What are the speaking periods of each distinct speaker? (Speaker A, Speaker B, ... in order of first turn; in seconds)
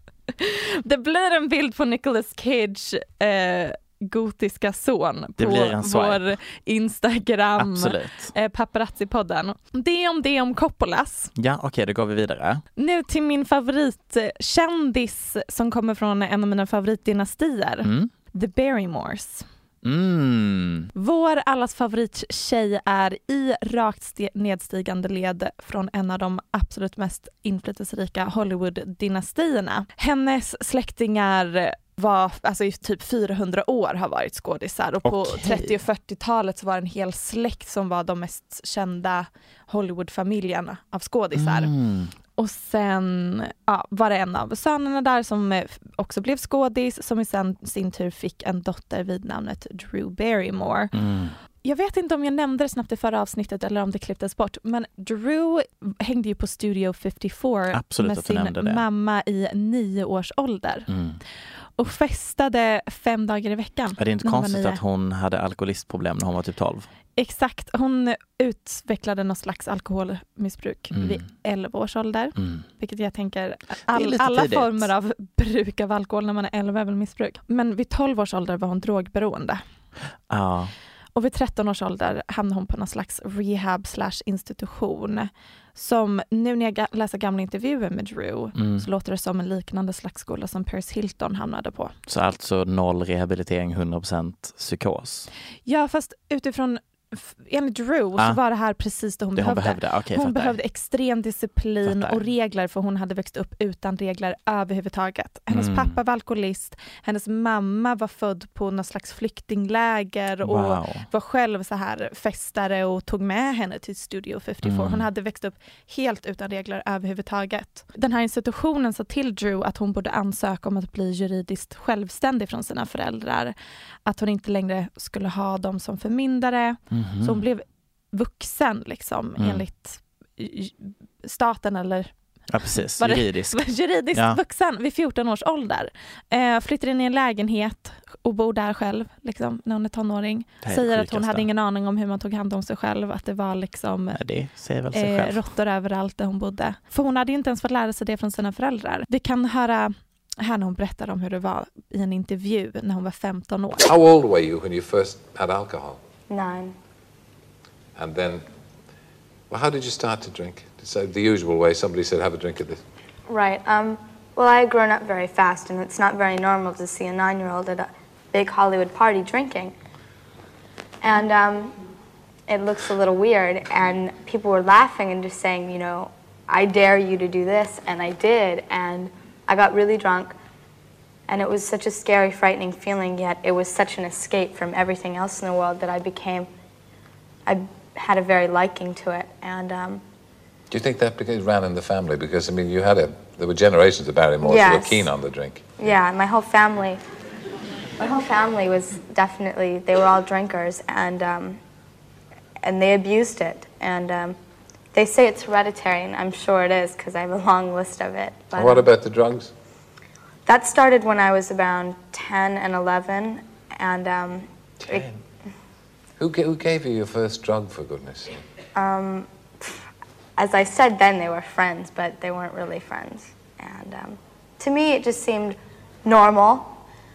Speaker A: 0.3-11.3, 12.8-19.4, 20.9-41.7, 42.4-50.9, 51.6-60.9, 61.8-64.8, 67.2-79.6, 81.1-91.9, 95.7-123.5, 124.1-132.1, 132.9-144.2, 144.9-153.8
Speaker B: 5.4-6.2, 7.6-8.3, 11.4-12.6, 17.8-18.1, 19.8-20.9, 35.0-35.8, 41.4-42.1, 50.9-51.4, 57.7-58.8, 60.9-61.2, 64.0-66.9, 70.9-71.2, 72.4-72.6, 73.9-74.9, 80.3-80.7, 88.6-88.8, 92.1-95.3, 99.3-100.6, 101.8-102.2, 105.5-106.0, 110.4-111.0, 114.6-115.1, 126.9-127.4, 129.4-129.6, 132.5-134.4, 140.6-141.4, 144.1-145.4
Speaker C: 153.8-156.0, 157.9-158.4, 159.5-162.8, 190.7-195.7, 208.5-209.5, 214.8-215.2, 216.2-218.4
Speaker D: 156.3-156.7, 163.3-169.7, 171.0-171.8, 172.5-180.3, 181.3-186.5, 187.4-190.0, 194.4-195.1, 195.8-197.0, 198.0-201.6, 202.6-204.4, 204.9-208.9, 210.4-215.1, 218.8-219.8, 220.4-226.8